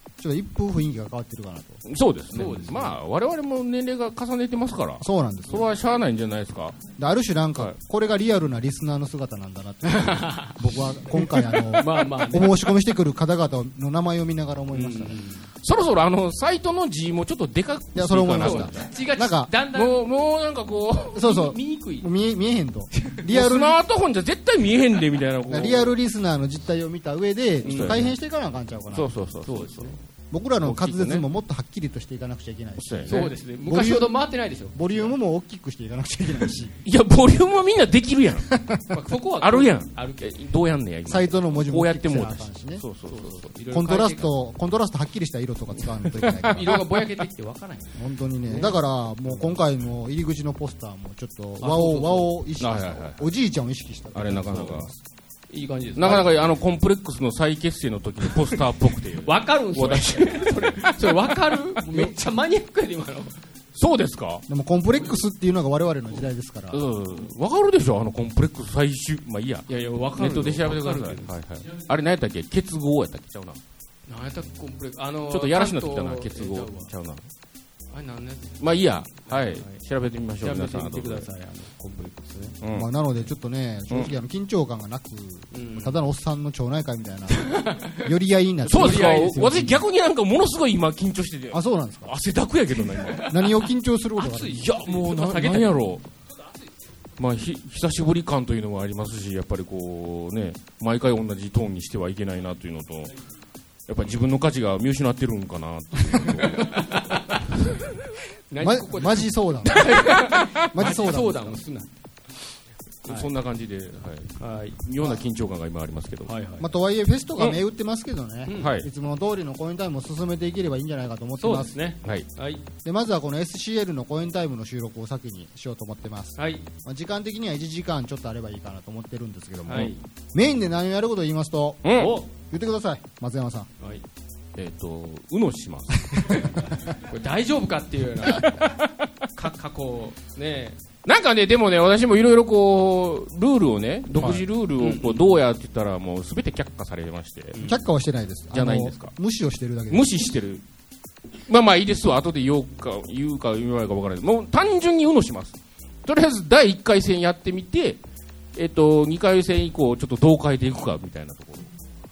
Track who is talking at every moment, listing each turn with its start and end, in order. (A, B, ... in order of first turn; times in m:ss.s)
0:00.2-0:01.8 A
0:01.8-0:06.8 B
0:02.3-0:03.0 C
0:05.0-0:05.7 A
0:07.0-0:15.2 A
0:09.9-0:10.6 C
0:11.8-0:12.6 C
0:14.7-0:15.5 C
0:15.6-0:18.9 B
0:17.9-0:19.5 A
0:18.4-0:20.1 C
0:19.7-0:21.2 B
0:21.1-0:22.1 C
0:21.1-0:23.8 A
0:23.3-0:26.0 B
0:25.5-0:29.1 A
0:27.6-0:28.1 C
0:27.6-0:28.1 B
0:28.9-0:30.0 B
0:29.4-0:30.0 C
0:30.3-0:34.1 A
0:30.6-0:31.2 B
0:32.8-0:33.3 B
0:33.1-0:35.1 C
0:34.7-0:36.7 A
0:36.8-0:38.5 B
0:38.5-0:38.8 A
0:38.9-0:40.4 C
0:39.4-0:43.4 B
0:41.0-0:42.8 A
0:43.1-0:44.3 C
0:43.7-0:46.8 A
0:46.2-0:46.8 B
0:46.5-0:49.5 C
0:47.9-0:55.0 A
0:51.6-0:52.3 C
0:52.6-0:53.2 B
0:54.1-0:54.9 B
0:55.5-0:56.3 C
0:56.0-1:01.4 B
0:58.2-0:58.6 C
0:59.1-1:03.4 C
1:03.7-1:04.4 B
1:04.5-1:06.8 A
1:06.7-1:13.6 B
1:09.7-1:11.3 C
1:14.1-1:16.9 C
1:15.3-1:17.2 B
1:17.9-1:19.8 C
1:18.6-1:21.3 B
1:20.4-1:22.6 C
1:22.6-1:22.9 B
1:22.7-1:29.7 A
1:23.9-1:24.2 B
1:25.5-1:26.0 C
1:27.4-1:28.1 C
1:28.6-1:29.8 C
1:28.6-1:33.3 B
1:31.5-1:32.1 A
1:33.0-1:33.5 C
1:33.3-1:34.7 A
1:34.2-1:35.8 C
1:34.6-1:36.0 B
1:37.2-1:43.1 B
1:43.9-1:46.8 B
1:46.5-1:47.6 C
1:48.5-1:51.9 C
1:48.6-1:51.6 A
1:53.0-1:56.3 B
1:54.4-1:54.8 C
1:56.3-1:56.7 C
1:56.6-2:01.7 A
1:58.5-1:58.7 C
1:58.6-1:58.9 B
2:01.4-2:02.6 C
2:02.8-2:13.7 A
2:06.4-2:06.6 C
2:09.7-2:10.0 C
2:11.8-2:12.2 B
2:11.9-2:12.3 C
2:14.6-2:16.6 B
2:16.2-2:18.6 C
2:18.3-2:18.9 B
2:19.4-2:20.8 C
2:21.0-2:27.6 B
2:24.2-2:25.2 C
2:27.5-2:27.8 C
2:27.6-2:30.1 A
2:28.5-2:29.1 B
2:29.9-2:30.6 B
2:31.5-2:38.0 B
2:38.6-2:41.7 B